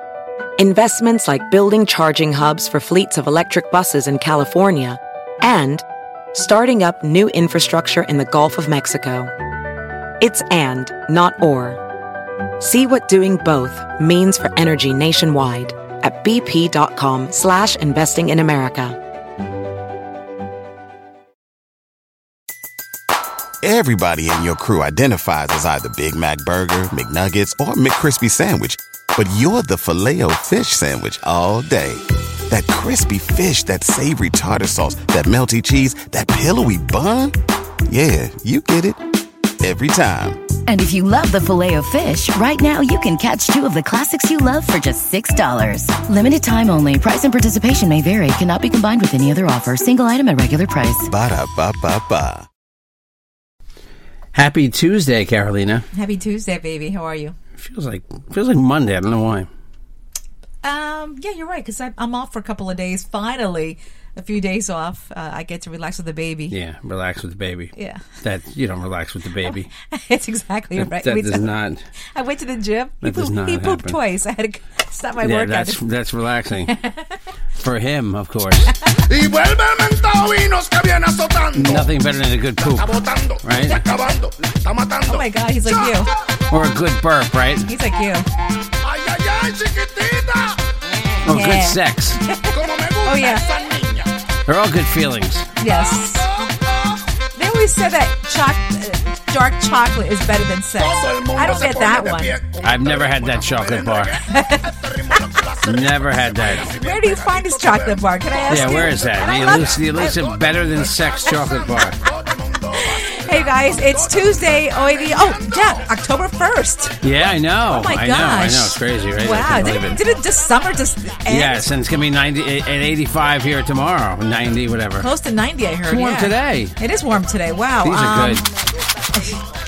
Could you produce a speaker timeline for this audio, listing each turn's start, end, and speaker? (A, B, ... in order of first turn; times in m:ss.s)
0:00.6-0:09.3 A
0:10.2-0:11.8 A
0:12.6-0:19.0 A
0:23.6-0:37.3 B
0:37.9-0:39.0 B
0:39.6-0:40.4 B
0:40.7-0:51.1 C
0:51.1-0:52.4 B
0:54.3-0:55.9 D
0:55.9-0:57.4 E
0:57.6-0:59.5 D
1:00.6-1:06.6 E
1:06.5-1:09.7 D
1:07.8-1:08.0 E
1:09.9-1:11.5 E
1:10.8-1:11.8 D
1:12.2-1:15.8 E
1:13.0-1:14.0 D
1:15.2-1:16.7 D
1:16.7-1:17.0 E
1:17.6-1:18.7 D
1:19.1-1:21.9 F
1:21.6-1:23.8 D
1:22.6-1:26.1 F
1:25.1-1:26.1 E
1:26.5-1:27.7 D
1:27.7-1:28.3 E
1:28.8-1:31.2 F
1:31.3-1:32.2 D
1:31.3-1:32.5 E
1:32.5-1:34.1 F
1:33.0-1:33.4 E
1:34.5-1:35.5 D
1:35.6-1:36.2 E
1:35.7-1:37.0 F
1:37.4-1:42.4 E
1:40.8-1:55.9 F
1:42.6-1:44.2 D
1:44.3-1:44.7 E
1:45.6-1:46.7 D
1:46.7-1:50.2 E
1:48.5-1:52.0 D
1:52.8-1:57.0 E
1:57.0-2:00.0 D
1:57.6-2:01.7 E
2:01.3-2:05.1 D
2:05.0-2:08.4 E
2:05.9-2:06.8 D
2:07.8-2:08.4 D